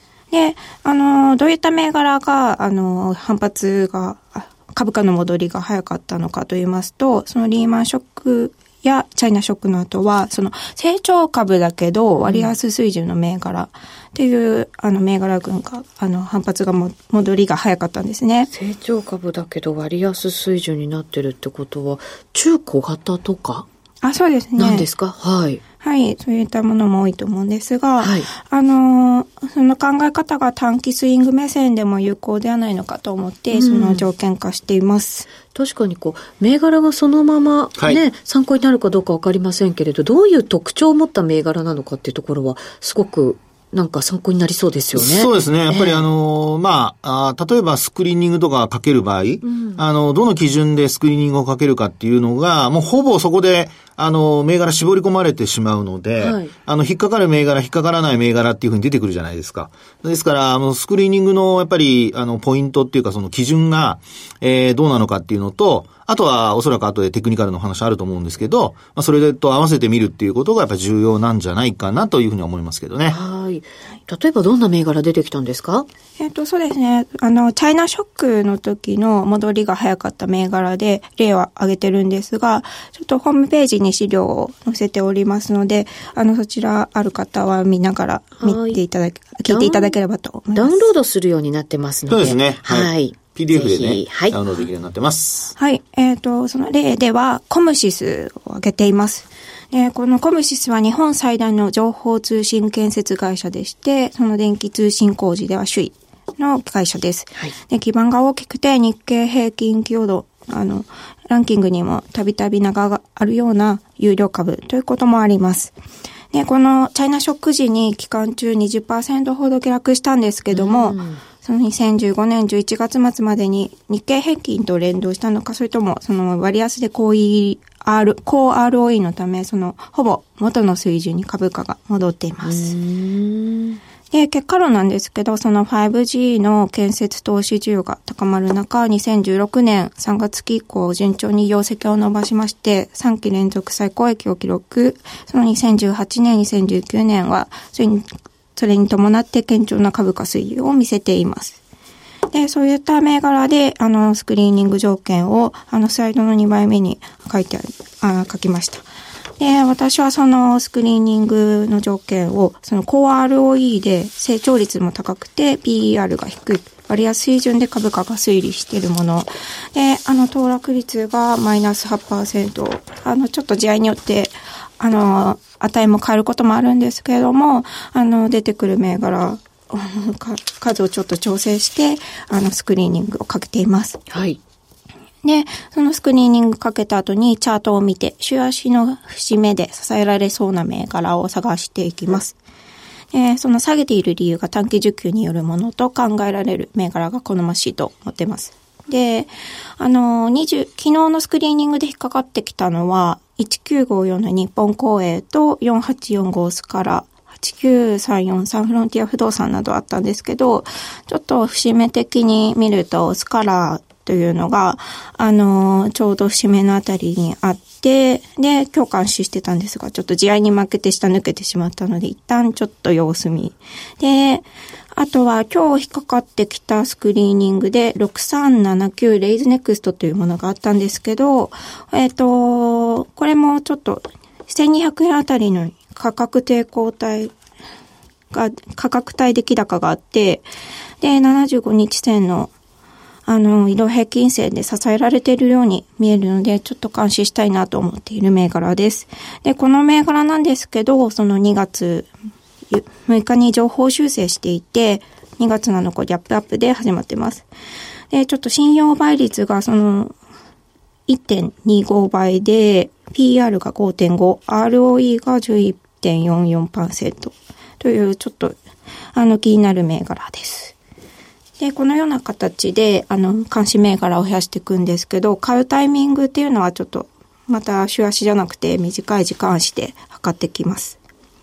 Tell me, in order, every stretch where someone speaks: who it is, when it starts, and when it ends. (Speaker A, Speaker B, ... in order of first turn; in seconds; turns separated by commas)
Speaker A: 0.3-18.5, Speaker B: 12.2-12.6, Speaker B: 18.5-23.6, Speaker A: 24.0-24.9, Speaker B: 24.6-25.6, Speaker A: 25.8-35.3, Speaker B: 28.0-28.3, Speaker B: 33.5-34.1, Speaker B: 35.5-46.0, Speaker C: 37.8-38.0, Speaker C: 45.0-73.2, Speaker B: 49.5-49.8, Speaker B: 56.2-56.5, Speaker B: 73.1-75.9, Speaker A: 76.2-90.8, Speaker B: 88.4-88.8, Speaker B: 89.5-90.0, Speaker B: 90.5-94.4, Speaker C: 92.1-95.5, Speaker A: 95.6-115.7, Speaker A: 116.3-132.8, Speaker B: 120.5-121.2, Speaker B: 132.4-133.8, Speaker A: 134.1-151.6, Speaker A: 152.3-158.9, Speaker A: 159.4-184.0, Speaker B: 184.1-184.4, Speaker A: 185.2-192.3, Speaker A: 193.1-224.4, Speaker A: 225.0-237.3, Speaker A: 238.3-240.5, Speaker A: 241.0-242.5, Speaker A: 243.3-252.1, Speaker A: 252.7-257.5, Speaker A: 258.1-260.1, Speaker A: 261.1-268.6, Speaker A: 269.1-270.7, Speaker A: 271.6-281.0